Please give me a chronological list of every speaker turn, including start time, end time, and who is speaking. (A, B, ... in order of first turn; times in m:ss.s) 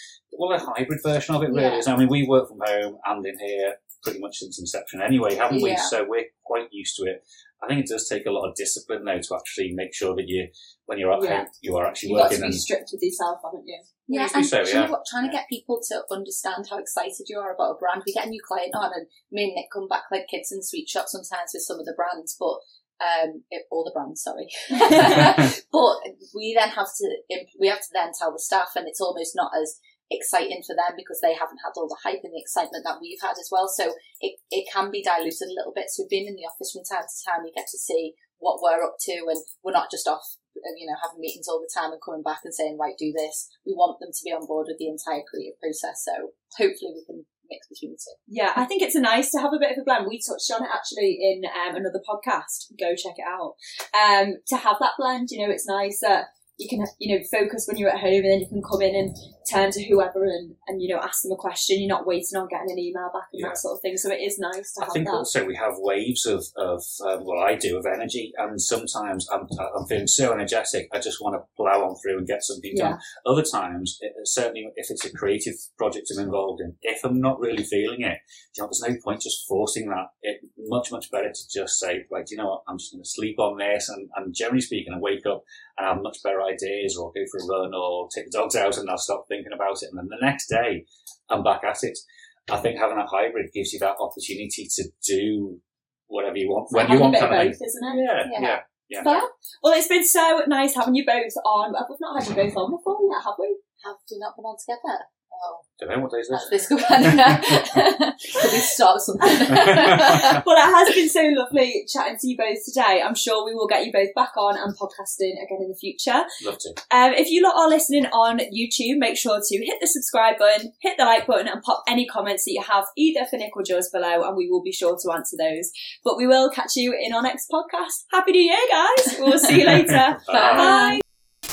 0:00.3-0:12.7 A
0:01.5-0:01.8 B
0:05.5-0:05.9 B
0:11.1-0:11.5 C
0:12.0-0:14.0 C
0:14.1-0:48.2 B
0:14.1-0:14.9 A
0:48.3-1:05.3 C
1:03.3-1:03.6 A
1:04.8-1:39.1 A
1:12.7-1:13.0 C
1:36.7-1:38.2 C
1:38.2-1:39.3 B
1:39.0-1:43.6 C
1:43.8-1:45.7 B
1:45.8-1:47.6 A
1:46.3-1:50.4 B
1:49.3-1:56.3 C
1:49.7-1:50.1 A
1:56.4-1:56.8 A
1:56.9-2:11.0 C
2:10.2-2:10.7 A
2:10.3-2:11.0 B